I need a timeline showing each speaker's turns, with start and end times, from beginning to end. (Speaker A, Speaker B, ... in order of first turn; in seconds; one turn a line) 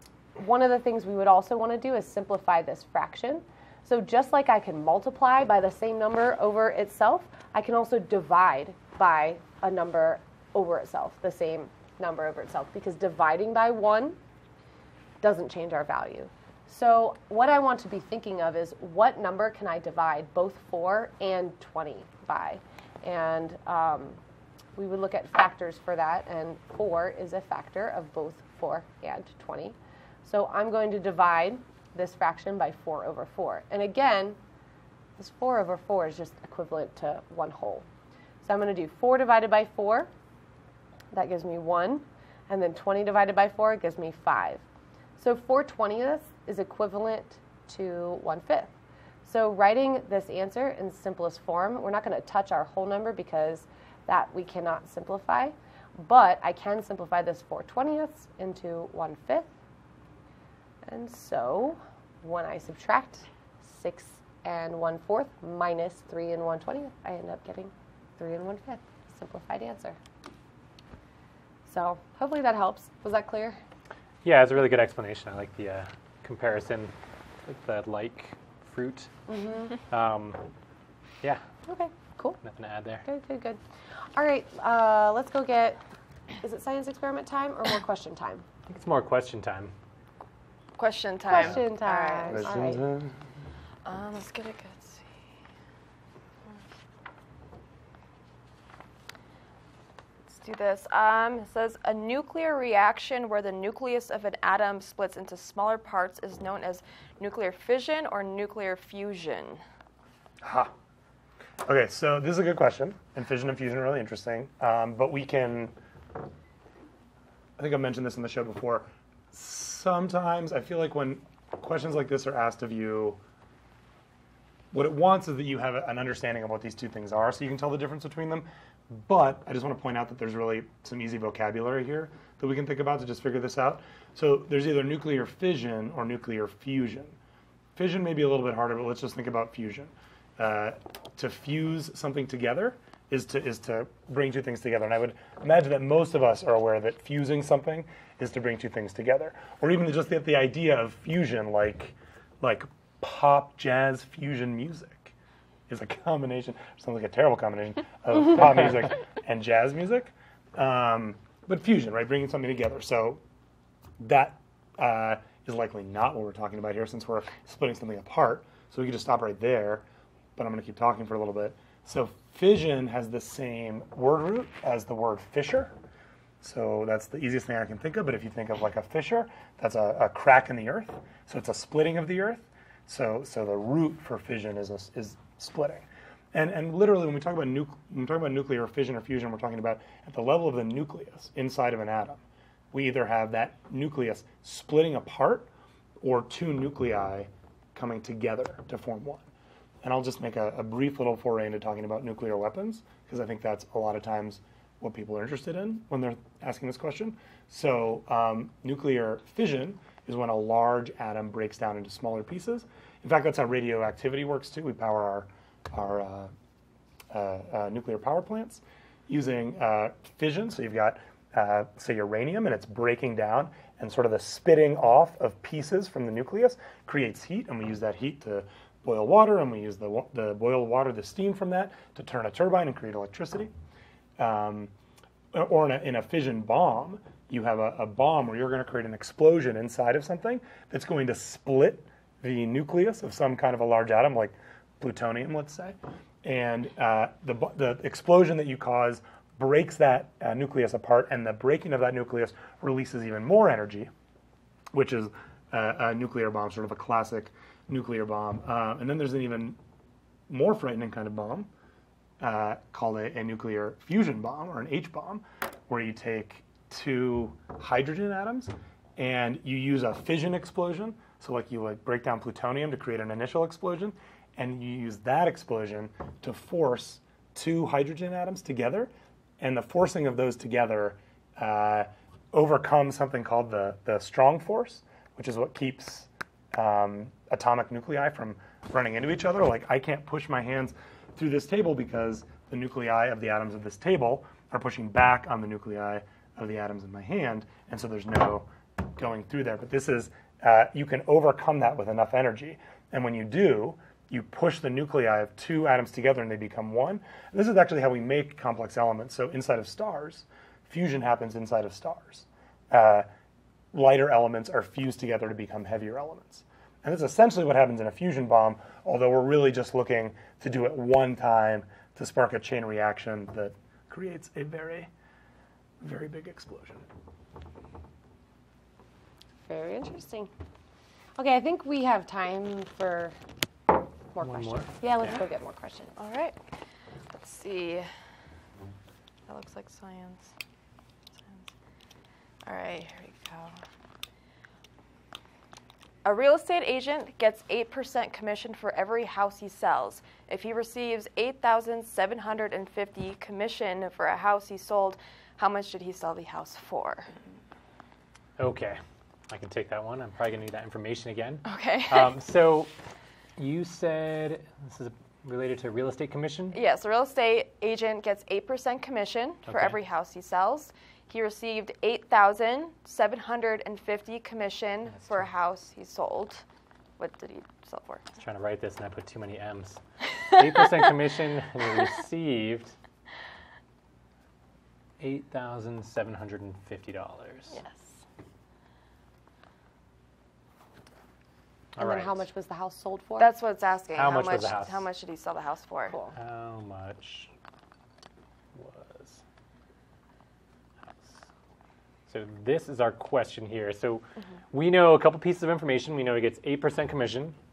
Speaker A: 0.3-14.2
Speaker A: 15.2-24.2
Speaker A: 24.8-34.4
Speaker A: 35.2-37.9
Speaker A: 38.4-40.1
Speaker A: 41.1-44.6
Speaker A: 45.2-48.7
Speaker A: 49.2-59.5
Speaker A: 60.9-70.0
Speaker A: 71.7-73.6
Speaker B: 74.2-76.9
Speaker B: 77.5-79.1
Speaker A: 79.3-79.7
Speaker B: 79.9-80.4
Speaker A: 81.7-82.4
Speaker B: 82.4-83.0
Speaker A: 83.0-83.6
Speaker A: 84.1-85.8
Speaker A: 86.4-88.4
Speaker B: 88.7-89.7
Speaker C: 90.8-92.5
Speaker A: 91.3-92.8
Speaker D: 92.3-93.2
Speaker C: 93.8-95.1
Speaker C: 100.3-109.6
Speaker D: 110.4-110.7
Speaker D: 111.6-115.7
Speaker D: 117.6-123.2
Speaker D: 124.7-137.2
Speaker D: 137.8-155.1
Speaker D: 155.7-163.2
Speaker D: 164.0-169.8
Speaker D: 170.3-175.7
Speaker D: 176.4-192.2
Speaker D: 192.7-195.5
Speaker D: 196.0-199.3
Speaker D: 199.8-216.3
Speaker D: 217.1-233.5
Speaker D: 234.2-234.7
Speaker D: 235.3-253.9
Speaker D: 254.7-259.6
Speaker D: 260.3-261.5
Speaker D: 262.2-313.1
Speaker D: 313.7-324.9
Speaker D: 325.8-326.9
Speaker A: 329.5-330.3
Speaker A: 331.2-333.1
Speaker A: 334.1-335.9
Speaker B: 334.2-335.1
Speaker C: 336.0-336.4
Speaker C: 337.1-337.9
Speaker C: 339.3-340.3
Speaker C: 341.2-341.5
Speaker C: 342.4-343.6
Speaker C: 346.0-357.1
Speaker B: 358.4-362.7
Speaker C: 361.4-362.1
Speaker B: 363.4-366.6
Speaker C: 366.5-376.4
Speaker B: 369.5-369.8
Speaker C: 377.0-378.0
Speaker B: 378.2-379.8
Speaker B: 380.3-382.8
Speaker B: 385.0-387.5
Speaker C: 387.5-387.8
Speaker B: 391.8-392.2
Speaker A: 391.8-393.3
Speaker C: 393.2-395.9
Speaker B: 393.9-394.9
Speaker A: 395.9-396.1
Speaker B: 396.1-397.3
Speaker B: 398.5-399.2
Speaker B: 400.9-401.2
Speaker B: 402.1-407.4